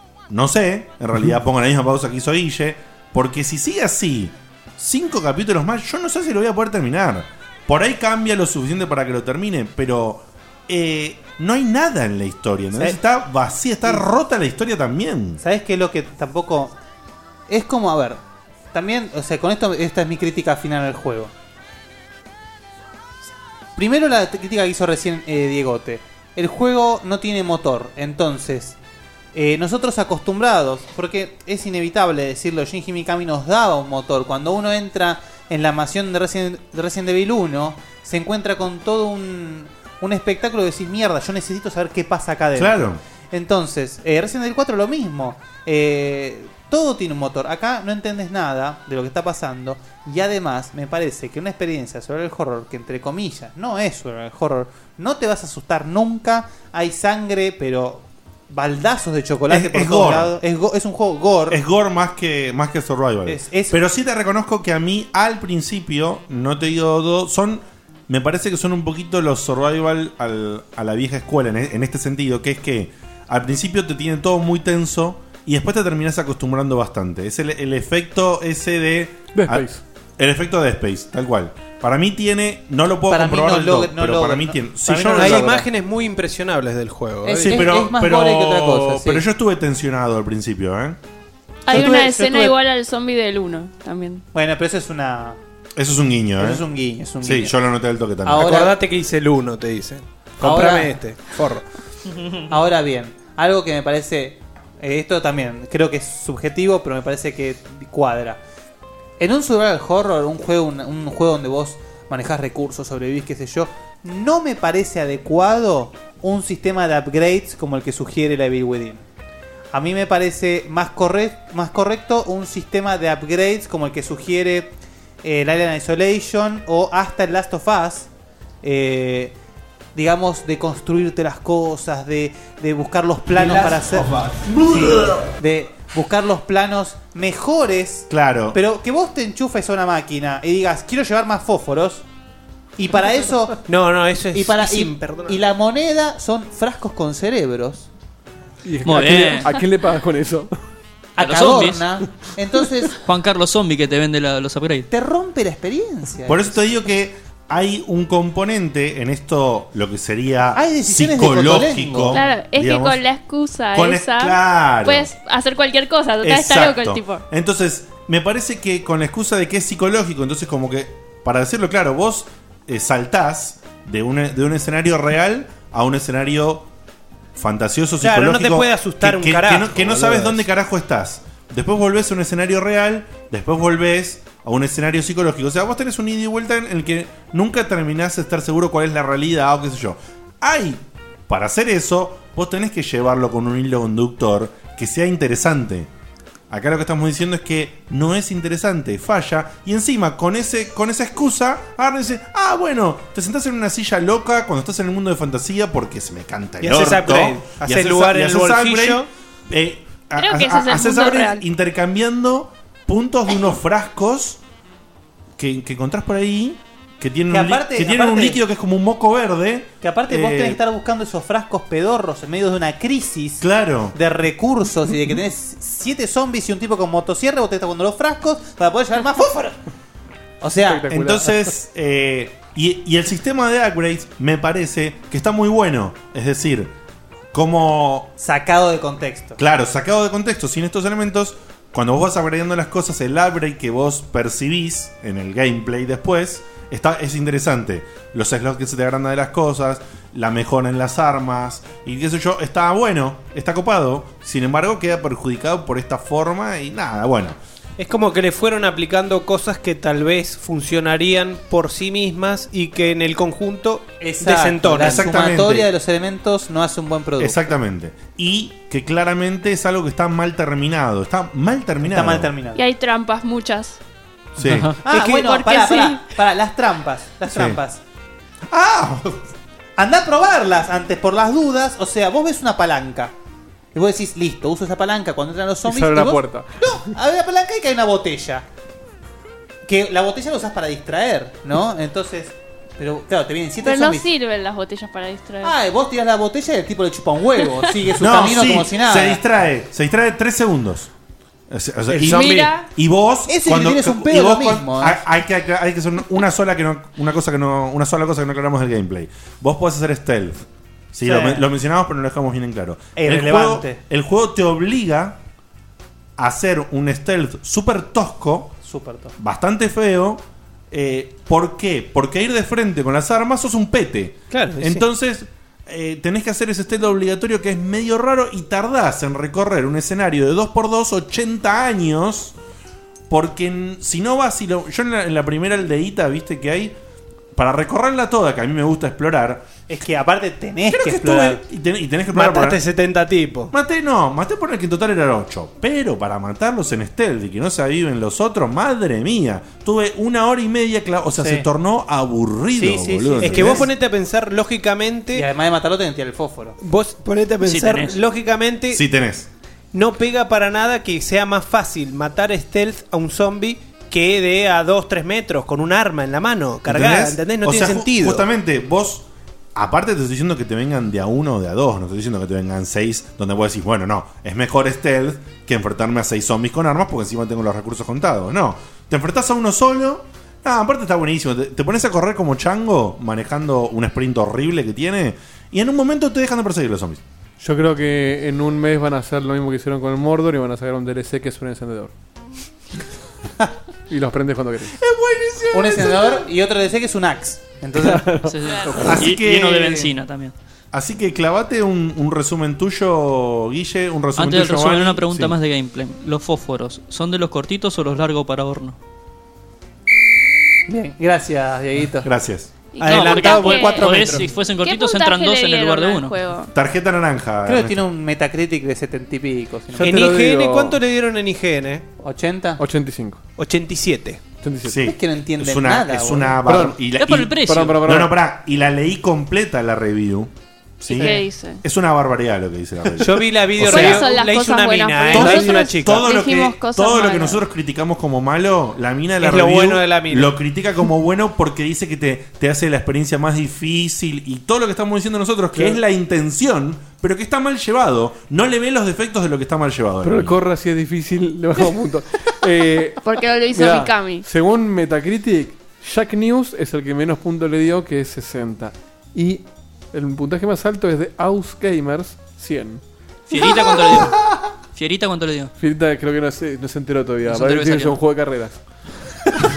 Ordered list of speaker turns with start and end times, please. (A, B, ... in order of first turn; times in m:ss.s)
0:00.3-0:15.4 A
0:15.4-0:16.7 B
0:17.5-0:18.2 B
0:18.7-0:21.3 B
0:23.8-0:28.8 B
0:29.3-1:01.6 B
0:42.6-0:43.0 A
0:59.5-1:00.3 A
1:01.5-1:19.7 A
1:03.2-1:03.8 B
1:19.3-1:19.8 C
1:20.2-1:25.6 A
1:23.1-1:25.7 B
1:25.1-1:27.7 D
1:27.2-1:29.2 B
1:27.4-1:31.0 A
1:31.6-1:34.2 E
1:31.7-1:32.6 B
1:34.3-1:35.4 B
1:35.8-1:36.6 A
1:36.4-1:37.6 B
1:37.2-1:38.5 A
1:38.2-1:38.8 B
1:38.3-1:41.6 D
1:40.4-1:41.0 B
1:42.5-1:48.4 B
1:49.2-1:59.0 B
1:59.7-2:08.1 B
2:08.6-2:09.3 B
2:09.9-2:14.1 B
2:13.3-2:15.1 D
2:14.6-2:22.0 B
2:18.1-2:18.6 A
2:22.8-2:23.6 B
2:23.7-2:25.4 D
2:24.3-2:27.9 B
2:28.6-2:30.5 C
2:28.8-2:29.5 F
2:31.2-2:33.0 B
2:31.2-2:31.9 F
2:33.0-2:34.9 F
2:34.9-2:36.6 B
2:36.3-2:43.0 A
2:40.6-2:42.3 B
2:42.1-2:47.2 E
2:43.7-2:45.1 A
2:46.2-2:56.7 A
2:57.4-3:15.9 A
2:58.0-3:00.4 D
3:16.5-3:34.4 A
3:26.6-3:29.1 D
3:30.2-3:31.4 E
3:35.4-3:40.6 A
3:37.3-3:38.4 B
3:39.8-3:49.6 B
3:43.4-3:44.0 A
3:50.4-3:50.9 B
3:50.6-3:51.5 C
3:50.9-3:56.7 A
3:57.3-3:58.1 A
3:58.2-3:59.4 B
3:59.4-4:17.4 A
4:17.8-4:25.1 D
4:24.0-4:27.5 B
4:24.8-4:25.7 A
4:27.2-4:32.3 A
4:31.8-4:32.6 B
4:32.6-4:33.8 E
4:34.4-4:34.7 A
4:34.4-4:34.8 F
4:34.8-4:37.8 B
4:34.9-4:36.0 E
4:37.3-4:37.6 A
4:38.5-4:39.2 A
4:39.8-4:43.1 B
4:43.7-4:48.4 B
4:45.7-4:46.5 C
4:49.6-4:54.1 B
4:53.6-4:55.5 E
4:55.4-4:59.2 B
4:58.0-5:00.9 A
5:01.5-5:15.2 A
5:01.9-5:02.5 D
5:02.1-5:02.6 E
5:03.3-5:05.0 B
5:11.0-5:11.5 B
5:13.0-5:13.8 B
5:16.2-5:18.6 A
5:18.6-5:19.1 B
5:19.2-5:32.3 A
5:24.3-5:24.8 D
5:33.1-5:36.8 A
5:37.3-5:39.5 A
5:39.7-5:41.4 B
5:40.7-5:42.6 A
5:42.1-5:43.5 D
5:43.5-5:53.7 A
5:51.1-5:51.4 B
5:52.5-5:53.7 B
5:53.2-5:55.3 D
5:55.1-5:56.6 B
5:56.6-5:58.8 D
5:57.4-5:58.0 F
5:58.7-5:59.3 A
5:59.7-6:08.2 D
6:06.7-6:27.0 A
6:27.4-6:31.9 C
6:33.9-6:34.8 C
6:34.8-6:36.3 A
6:35.5-6:38.2 B
6:37.8-6:39.0 C
6:38.3-6:40.3 F
6:38.8-6:39.9 A
6:40.7-6:45.3 A
6:44.2-6:48.8 F
6:50.7-6:52.1 B
6:52.0-6:52.5 A
6:52.7-6:53.9 E
6:52.8-6:54.3 D
6:52.8-6:56.1 F
6:54.6-6:56.5 E
6:56.5-6:57.8 A
6:57.4-7:00.1 B
6:59.7-7:00.8 C
6:59.8-7:01.8 D
7:02.0-7:02.6 B
7:02.6-7:03.2 C
7:03.4-7:04.2 D
7:04.4-7:04.8 C
7:04.6-7:14.1 A
7:04.8-7:06.4 B
7:06.4-7:06.8 C
7:07.0-7:07.8 F
7:07.4-7:08.1 C
7:10.9-7:11.6 E
7:13.0-7:16.1 D
7:13.6-7:17.4 E
7:15.1-7:30.4 A
7:19.2-7:20.4 D
7:30.0-7:42.8 C
7:33.0-7:34.2 E
7:43.3-7:45.5 F
7:45.6-7:48.6 C
7:47.2-7:48.0 F